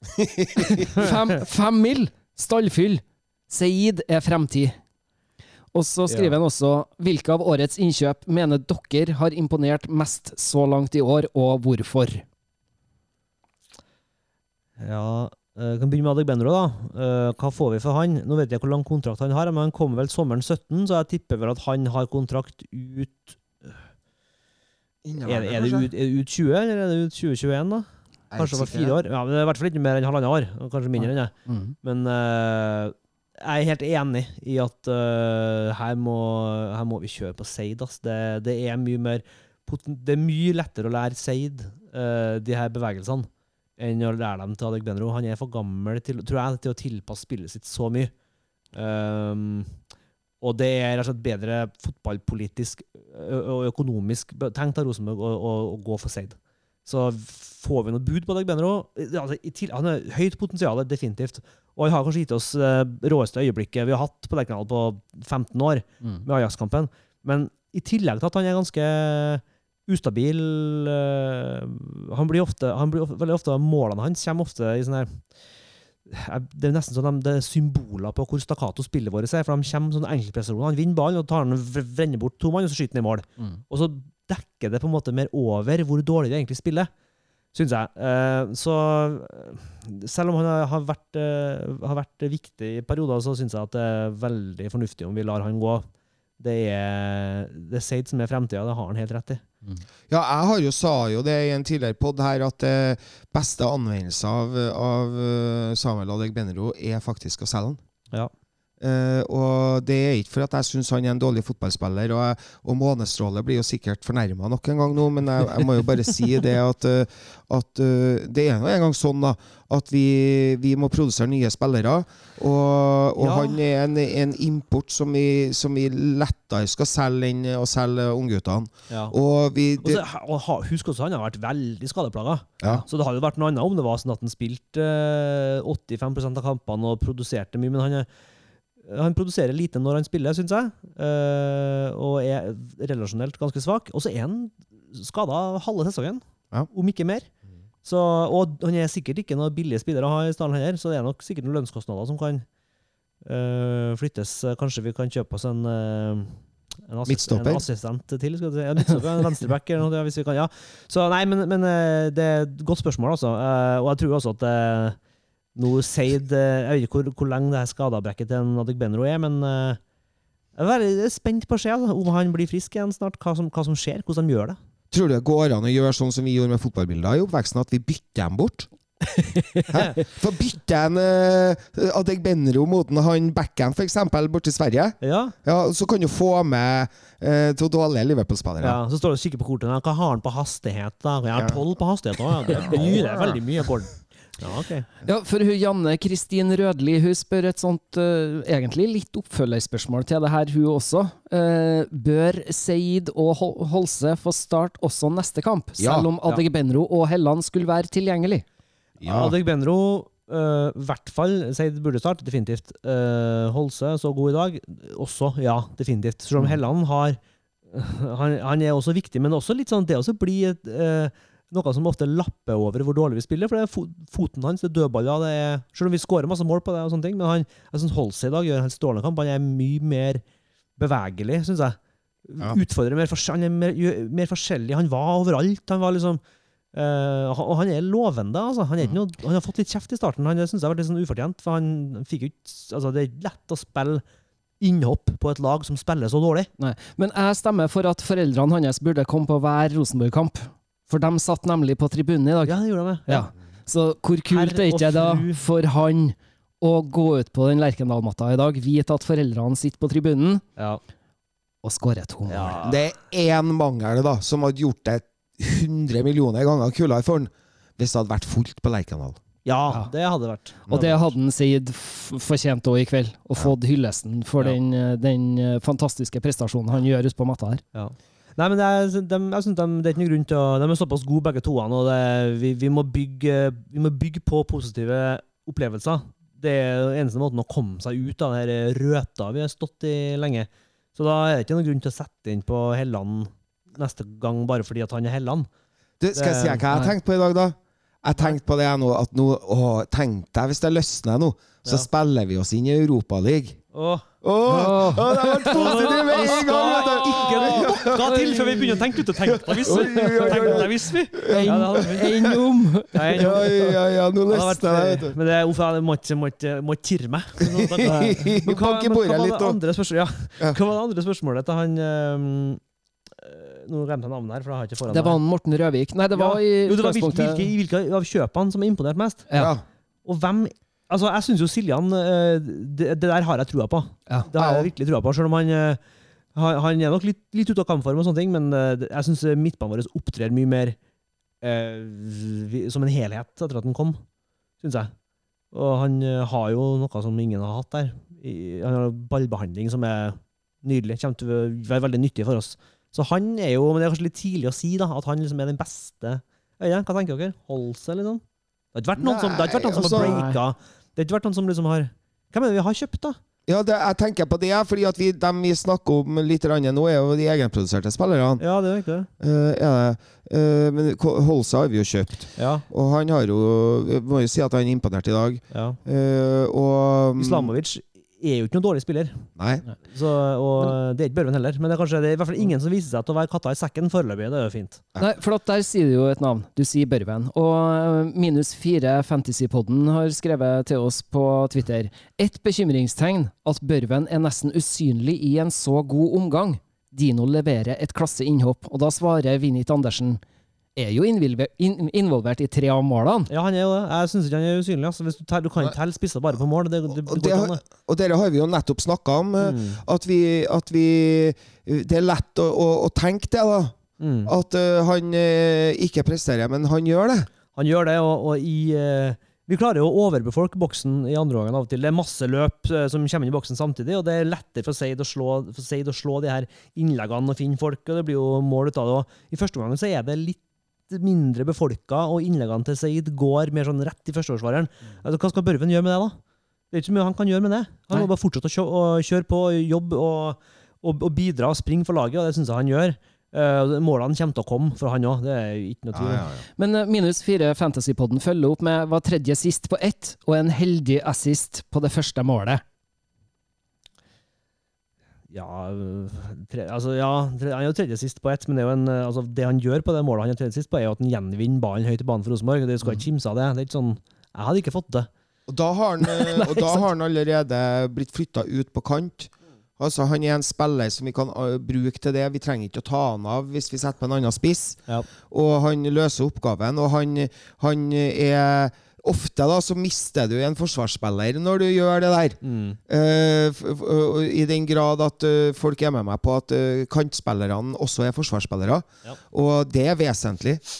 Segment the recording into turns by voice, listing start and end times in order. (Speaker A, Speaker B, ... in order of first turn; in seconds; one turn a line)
Speaker A: 0.2-0.9
Speaker B: 0.5-4.8
Speaker B: 5.7-12.2
Speaker C: 6.1-6.3
Speaker C: 14.8-23.8
Speaker A: 25.0-25.9
Speaker C: 25.2-48.1
Speaker A: 28.3-29.0
Speaker B: 31.5-31.7
Speaker C: 48.7-49.7
Speaker C: 50.4-75.2
Speaker C: 76.1-86.9
Speaker C: 87.5-95.8
Speaker C: 96.4-99.4
Speaker A: 100.1-107.8
Speaker A: 108.8-130.0
Speaker C: 123.2-123.6
Speaker C: 129.8-138.1
Speaker C: 138.8-147.3
Speaker C: 147.8-152.4
Speaker C: 153.2-165.0
Speaker A: 157.1-157.6
Speaker C: 165.6-169.8
Speaker C: 170.6-174.6
Speaker A: 174.9-178.7
Speaker B: 179.2-179.7
Speaker A: 179.7-188.8
Speaker C: 185.0-185.3
Speaker C: 188.6-194.9
Speaker A: 191.3-191.6
Speaker A: 192.4-193.4
Speaker B: 195.0-208.4
Speaker A: 205.8-206.1
Speaker A: 209.0-209.3
Speaker C: 209.0-217.2
Speaker C: 217.7-230.2
Speaker C: 230.8-236.2
Speaker C: 236.7-244.0
Speaker C: 244.6-246.5
Speaker B: 246.6-252.6
Speaker C: 252.4-253.2
Speaker B: 253.1-260.4
Speaker C: 254.3-255.4
Speaker B: 261.6-262.6
Speaker C: 262.3-262.8
Speaker A: 262.6-269.2
Speaker C: 269.4-270.9
Speaker A: 270.7-271.0
Speaker B: 270.7-277.6
Speaker C: 277.7-295.5
Speaker A: 296.0-303.6
Speaker C: 296.1-296.6
Speaker C: 303.7-304.0
Speaker A: 304.2-312.4
Speaker B: 304.4-308.8
Speaker C: 305.5-312.2
Speaker B: 309.6-310.7
Speaker B: 311.2-313.7
Speaker C: 312.9-313.5
Speaker A: 313.1-315.2
Speaker C: 314.3-322.6
Speaker A: 317.4-319.6
Speaker C: 323.1-325.2
Speaker B: 324.9-327.4
Speaker C: 326.1-329.3
Speaker A: 329.4-329.6
Speaker C: 330.0-335.8
Speaker A: 334.4-334.7
Speaker C: 336.3-340.8
Speaker C: 341.4-344.0
Speaker C: 344.6-344.9
Speaker C: 345.5-358.2
Speaker C: 358.7-363.2
Speaker A: 359.0-360.2
Speaker B: 359.8-360.4
Speaker A: 363.5-368.4
Speaker C: 368.4-369.1
Speaker A: 369.2-377.5
Speaker C: 372.4-372.6
Speaker C: 375.5-375.8
Speaker C: 377.2-379.2
Speaker A: 379.4-379.6
Speaker C: 379.9-384.8
Speaker B: 385.0-400.2
Speaker B: 400.8-403.3
Speaker C: 403.3-407.6
Speaker A: 407.0-417.3
Speaker C: 409.4-409.8
Speaker C: 414.0-414.3
Speaker C: 417.5-436.1
Speaker C: 436.7-446.3
Speaker A: 445.9-446.4
Speaker B: 446.6-452.6
Speaker C: 455.3-465.1
Speaker A: 465.5-490.6
Speaker B: 466.0-466.8
Speaker C: 482.4-482.8